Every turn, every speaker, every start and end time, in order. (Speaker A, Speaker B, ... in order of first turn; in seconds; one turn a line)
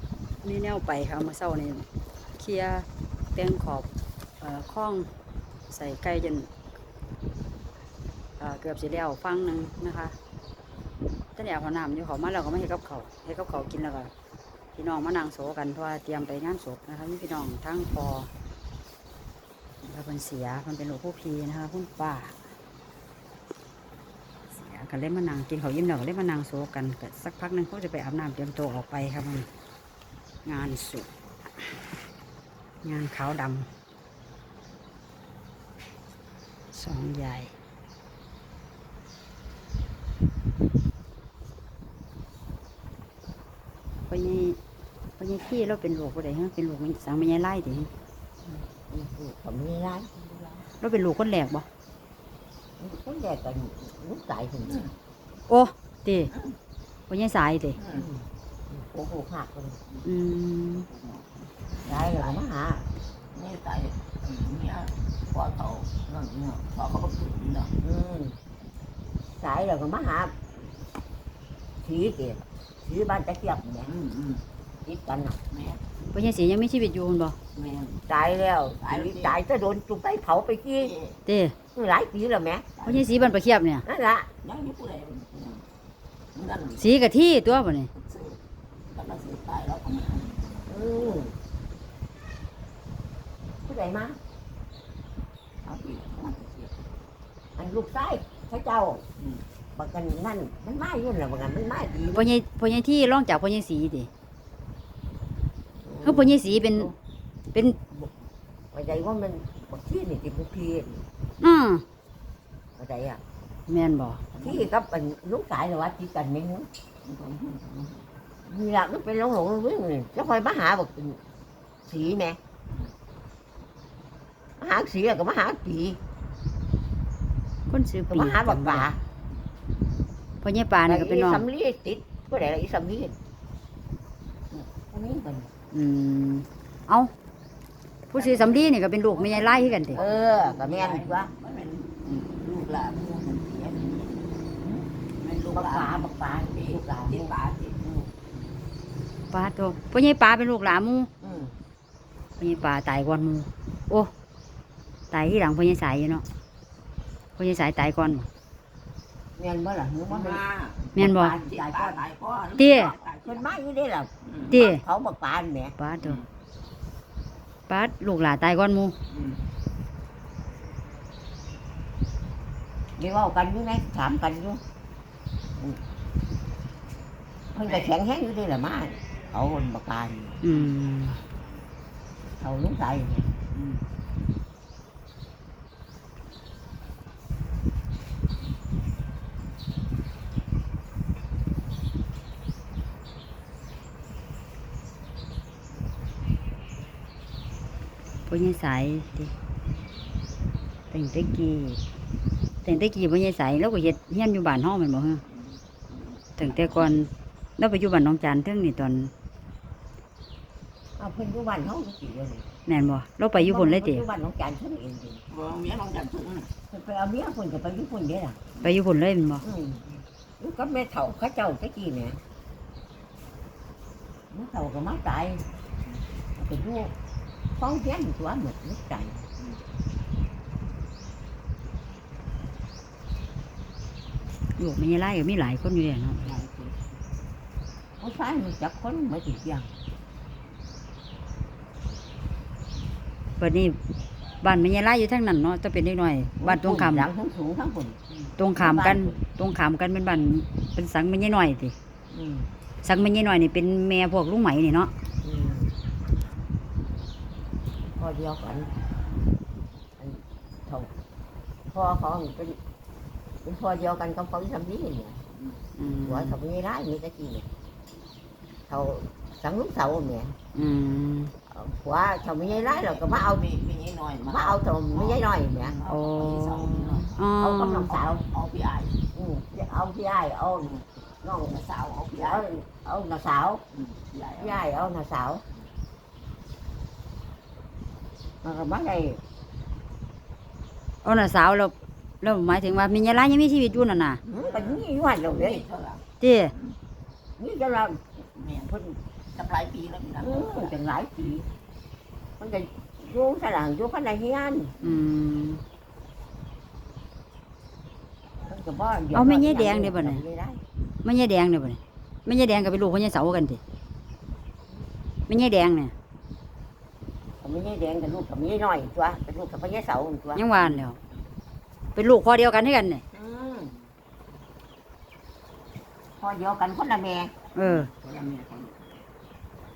Speaker A: 0.4-3.9
Speaker A: 4.4-5.1
Speaker A: 5.7-6.5
Speaker A: 8.4-10.2
Speaker A: 11.3-14.1
Speaker A: 14.7-18.3
Speaker A: 19.8-22.4
Speaker A: 24.5-29.5
Speaker A: 30.4-31.9
Speaker A: 32.8-33.7
Speaker A: 36.7-37.5
Speaker A: 44.1-44.6
Speaker A: 45.2-47.9
Speaker B: 48.9-50.1
Speaker A: 50.8-51.6
Speaker B: 52.8-54.9
Speaker A: 55.5-56.3
Speaker A: 57.1-57.8
Speaker C: 57.8-58.1
Speaker B: 57.9-59.8
Speaker A: 60.0-60.9
Speaker C: 60.9-62.2
Speaker B: 61.8-62.8
Speaker C: 63.3-67.7
Speaker B: 67.8-68.4
Speaker B: 69.3-70.3
Speaker B: 71.8-73.9
Speaker C: 73.9-74.4
Speaker B: 74.8-75.4
Speaker C: 75.5-75.8
Speaker A: 76.1-77.3
Speaker C: 77.5-78.0
Speaker B: 78.1-80.9
Speaker C: 78.8-79.3
Speaker C: 80.8-81.2
Speaker A: 81.2-81.5
Speaker B: 81.7-82.7
Speaker C: 82.8-83.2
Speaker A: 82.8-83.8
Speaker B: 83.8-84.3
Speaker C: 84.4-85.7
Speaker C: 86.3-86.8
Speaker A: 86.8-87.9
Speaker C: 87.9-88.4
Speaker C: 88.9-91.2
Speaker B: 90.7-91.3
Speaker B: 93.6-94.2
Speaker C: 95.6-96.7
Speaker B: 97.5-99.0
Speaker B: 99.7-102.3
Speaker A: 102.1-104.1
Speaker C: 105.9-106.9
Speaker A: 106.0-106.9
Speaker B: 108.7-111.0
Speaker A: 111.4-111.8
Speaker B: 112.8-113.2
Speaker A: 113.7-114.2
Speaker C: 114.3-114.7
Speaker B: 114.3-116.7
Speaker C: 117.0-118.0
Speaker B: 118.4-121.2
Speaker B: 121.9-122.4
Speaker B: 124.6-126.0
Speaker A: 127.7-128.9
Speaker B: 128.1-129.0
Speaker A: 130.4-131.4
Speaker B: 130.9-133.2
Speaker B: 134.5-135.5
Speaker A: 135.7-137.1
Speaker A: 138.1-140.0
Speaker C: 138.1-144.4
Speaker B: 139.9-141.3
Speaker B: 144.6-144.9
Speaker C: 145.2-147.8
Speaker B: 145.5-147.3
Speaker A: 149.3-151.1
Speaker C: 151.2-151.5
Speaker B: 151.2-151.5
Speaker A: 152.4-154.1
Speaker A: 155.1-156.2
Speaker A: 157.4-158.3
Speaker B: 159.4-162.0
Speaker C: 160.1-163.4
Speaker A: 161.0-161.4
Speaker A: 162.6-162.9
Speaker B: 163.2-165.8
Speaker C: 164.3-164.5
Speaker A: 164.5-164.8
Speaker A: 165.8-166.2
Speaker A: 167.7-168.9
Speaker C: 169.1-169.4
Speaker B: 173.0-174.6
Speaker B: 177.5-180.4
Speaker A: 180.4-181.2
Speaker B: 182.4-183.3
Speaker C: 183.5-183.8
Speaker A: 198.3-199.3
Speaker A: 200.9-201.8
Speaker A: 202.6-205.2
Speaker A: 206.4-209.1
Speaker C: 206.4-206.9
Speaker B: 211.0-212.4
Speaker A: 212.7-214.0
Speaker B: 213.3-215.2
Speaker C: 215.3-216.5
Speaker B: 216.7-218.4
Speaker A: 218.6-219.4
Speaker B: 219.4-219.8
Speaker B: 220.4-222.2
Speaker B: 224.3-225.4
Speaker B: 226.4-226.9
Speaker B: 227.6-229.3
Speaker A: 234.6-236.3
Speaker C: 236.2-236.8
Speaker B: 238.0-239.7
Speaker A: 243.4-243.8
Speaker A: 244.4-247.1
Speaker B: 246.4-248.0
Speaker A: 248.3-251.7
Speaker B: 248.5-249.2
Speaker B: 252.2-252.5
Speaker A: 252.8-254.9
Speaker B: 255.2-255.8
Speaker B: 257.9-258.7
Speaker B: 260.0-260.9
Speaker B: 261.7-262.6
Speaker B: 263.4-265.2
Speaker A: 265.8-266.4
Speaker B: 266.0-267.4
Speaker B: 268.7-270.3
Speaker A: 270.5-271.3
Speaker B: 271.5-273.5
Speaker C: 272.4-277.2
Speaker B: 274.3-275.8
Speaker A: 275.9-277.9
Speaker B: 277.4-278.2
Speaker C: 277.9-279.0
Speaker B: 279.1-281.6
Speaker C: 281.4-282.5
Speaker B: 282.1-283.6
Speaker C: 283.7-284.6
Speaker B: 284.4-285.4
Speaker B: 288.4-289.2
Speaker A: 291.0-294.2
Speaker B: 294.2-295.6
Speaker C: 294.4-294.8
Speaker C: 295.3-296.0
Speaker A: 296.2-296.5
Speaker B: 297.4-299.0
Speaker C: 298.4-298.7
Speaker C: 299.3-300.7
Speaker B: 300.2-301.5
Speaker B: 302.4-304.8
Speaker A: 304.8-305.6
Speaker B: 308.4-310.6
Speaker A: 309.1-310.2
Speaker A: 311.0-313.6
Speaker A: 315.3-315.9
Speaker B: 317.4-320.4
Speaker A: 320.3-321.0
Speaker A: 321.9-323.0
Speaker B: 323.1-323.8
Speaker B: 326.2-327.3
Speaker A: 327.5-327.9
Speaker C: 327.6-328.8